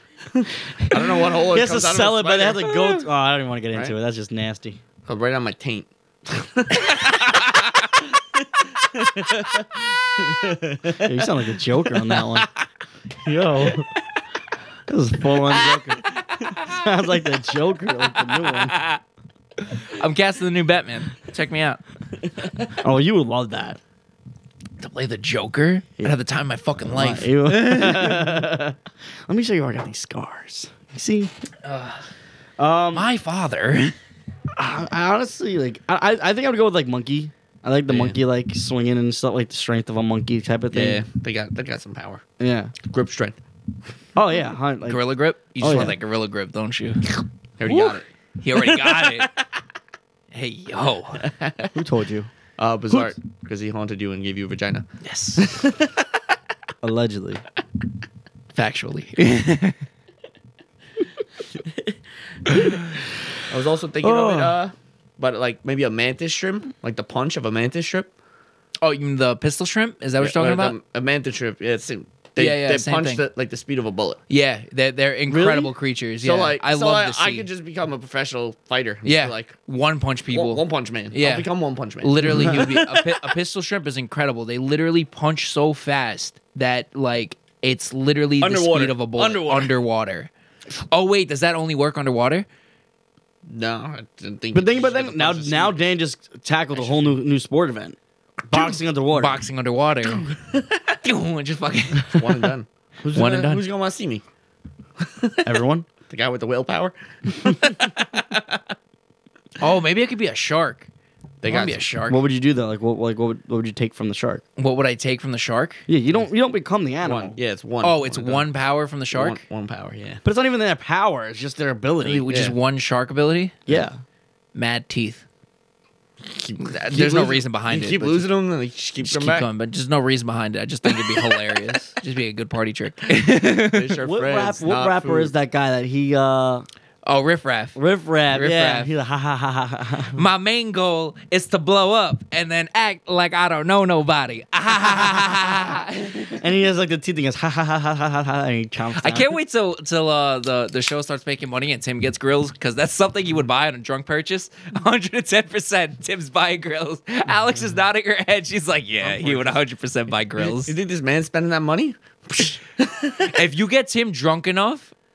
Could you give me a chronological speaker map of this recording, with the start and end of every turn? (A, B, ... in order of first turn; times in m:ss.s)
0:00.3-0:02.7 A
0:00.8-0:04.8 B
0:02.7-0:03.0 C
0:05.0-0:11.3 A
0:11.0-0:12.5 B
0:13.2-0:13.9 B
0:14.9-0:18.8 B
0:15.7-0:16.8 C
0:18.0-0:19.0 C
0:19.6-0:21.8 C
0:22.3-0:22.7 A
0:22.8-0:23.8 B
0:24.8-0:28.4 C
0:26.9-0:28.8 B
0:29.3-0:31.3 B
0:31.6-0:32.0 C
0:32.6-0:33.1 B
0:32.9-0:34.0 C
0:34.6-0:41.0 B
0:37.9-0:38.2 A
0:40.7-0:42.2 A
0:42.4-0:42.7 B
0:42.8-0:43.4 A
0:44.2-0:45.0 B
0:44.9-0:47.2 C
0:45.6-0:46.0 B
0:47.6-0:49.4 A
0:47.7-0:49.3 C
0:50.3-0:51.3 C
0:51.2-0:51.7 A
0:51.8-0:52.3 B
0:52.6-0:56.2 A
0:55.0-0:55.6 C
0:56.8-0:57.4 B
0:58.5-0:59.8 C
1:01.5-1:02.0 A
1:02.6-1:02.8 B
1:03.5-1:08.1 A
1:04.0-1:04.6 B
1:08.8-1:10.8 C
1:10.2-1:14.2 A
1:12.4-1:13.2 C
1:14.3-1:17.5 C
1:15.3-1:15.7 B
1:16.2-1:19.6 A
1:19.0-1:30.3 C
1:20.3-1:23.4 A
1:28.4-1:29.8 A
1:30.9-1:32.5 C
1:33.5-1:35.8 A
1:34.5-1:38.0 B
1:36.7-1:37.1 A
1:38.5-1:39.4 B
1:39.1-1:40.3 C
1:40.1-1:41.0 A
1:41.0-1:42.5 C
1:42.0-1:44.2 A
1:43.1-1:43.6 C
1:45.0-1:48.6 A
1:45.4-1:45.9 B
1:49.6-1:50.9 C
1:51.4-1:51.9 A
1:51.5-1:52.2 C
1:52.1-1:54.4 B
1:54.6-1:55.8 C
1:55.9-1:57.4 B
1:57.0-1:58.5 A
1:57.8-1:59.4 C
1:59.1-2:00.2 A
2:00.2-2:02.2 B
2:02.0-2:03.6 C
2:02.3-2:02.6 A
2:03.7-2:04.0 B
2:04.6-2:05.2 C
2:06.2-2:09.5 A
2:06.6-2:08.3 C
2:09.0-2:14.0 C
2:10.9-2:11.6 A
2:13.6-2:15.3 A
2:14.0-2:16.7 B
2:17.0-2:17.8 C
2:17.8-2:20.2 B
2:18.3-2:18.9 C
2:20.2-2:26.4 C
2:26.4-2:29.3 B
2:29.0-2:40.7 C
2:39.0-2:39.6 A
2:40.4-2:43.4 A
2:43.3-2:44.9 C